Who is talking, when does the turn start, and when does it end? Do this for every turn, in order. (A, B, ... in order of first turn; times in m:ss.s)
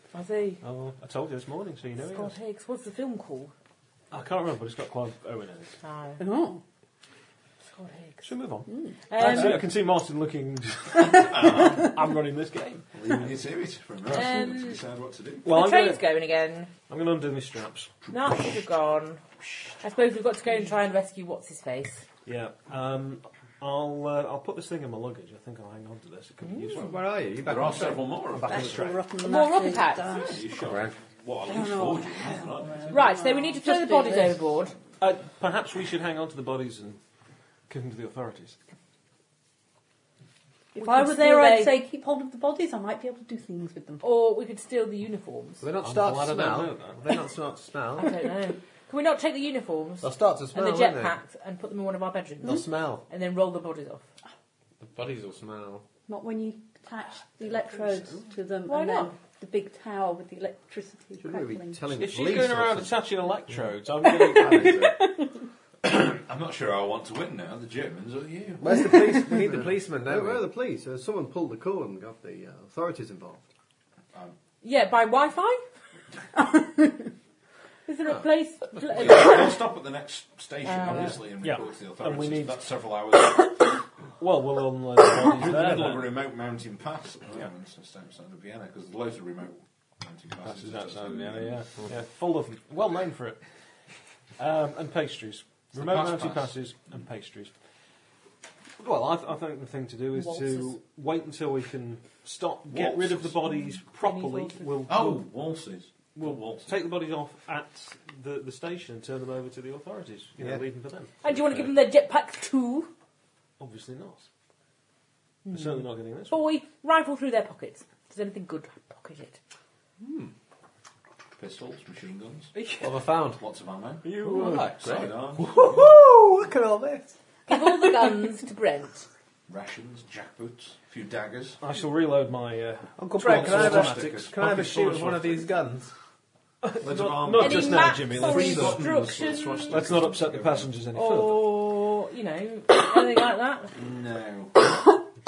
0:00.1-0:00.6 A
0:00.6-0:02.4 B
0:02.0-0:03.5 A
0:04.1-0:05.8 B
0:05.8-0:06.2 A
0:06.2-0:06.6 C
0:07.7-0:08.3 A
0:08.2-0:12.9 B
0:08.7-0:09.0 C
0:09.1-0:09.7 A
0:11.3-0:11.8 D
0:12.9-0:15.5 D
0:14.1-0:14.8 A
0:15.4-0:16.0 B
0:15.4-0:16.7 A
0:16.9-0:18.1 B
0:18.1-0:19.2 A
0:19.8-0:22.0 A
0:22.2-0:26.9 B
0:26.4-0:26.8 A
0:26.7-0:28.7 D
0:26.8-0:28.1 E
0:28.3-0:29.0 B
0:28.4-0:30.5 C
0:29.2-0:30.4 A
0:30.2-0:33.1 D
0:30.6-0:30.9 E
0:31.4-0:34.4 C
0:32.9-0:34.7 A
0:35.0-0:37.0 B
0:37.7-0:38.6 B
0:40.7-0:41.8 A
0:40.7-0:44.0 C
0:44.0-0:45.7 A
0:45.6-0:48.3 E
0:45.8-0:47.2 B
0:48.0-0:54.0 A
0:50.0-0:51.2 E
0:52.4-0:53.0 E
0:54.8-0:55.8 E
0:56.1-1:01.9 C
0:58.6-0:59.2 A
1:01.2-1:03.0 F
1:02.0-1:05.0 B
1:04.0-1:05.4 C
1:05.8-1:08.6 D
1:08.6-1:10.5 E
1:09.3-1:13.5 F
1:14.6-1:15.6 A
1:16.4-1:16.9 C
1:17.8-1:19.6 A
1:18.9-1:23.7 D
1:20.6-1:21.2 A
1:20.9-1:22.6 B
1:24.2-1:26.1 B
1:25.1-1:31.5 D
1:30.4-1:33.4 B
1:34.4-1:37.5 B
1:35.7-1:36.5 D
1:38.8-1:45.3 B
1:40.2-1:40.6 A
1:42.7-1:43.8 D
1:43.9-1:44.9 A
1:44.9-1:46.8 D
1:46.1-1:51.7 B
1:50.4-1:50.6 E
1:51.2-1:52.9 A
1:53.6-1:54.3 B
1:55.4-1:59.4 A
1:55.5-1:56.4 B
2:00.0-2:00.3 E
2:01.4-2:02.5 D
2:02.5-2:02.9 B
2:02.8-2:03.4 E
2:03.3-2:05.9 D
2:04.0-2:04.7 B
2:04.1-2:07.1 E
2:07.5-2:09.1 A
2:07.5-2:07.8 C
2:09.5-2:11.6 D
2:11.6-2:15.4 B
2:13.0-2:15.9 E
2:13.2-2:14.4 D
2:16.6-2:18.8 B
2:16.8-2:20.7 D
2:17.4-2:19.8 A
2:19.7-2:21.5 B
2:20.9-2:23.7 A
2:23.7-2:24.8 D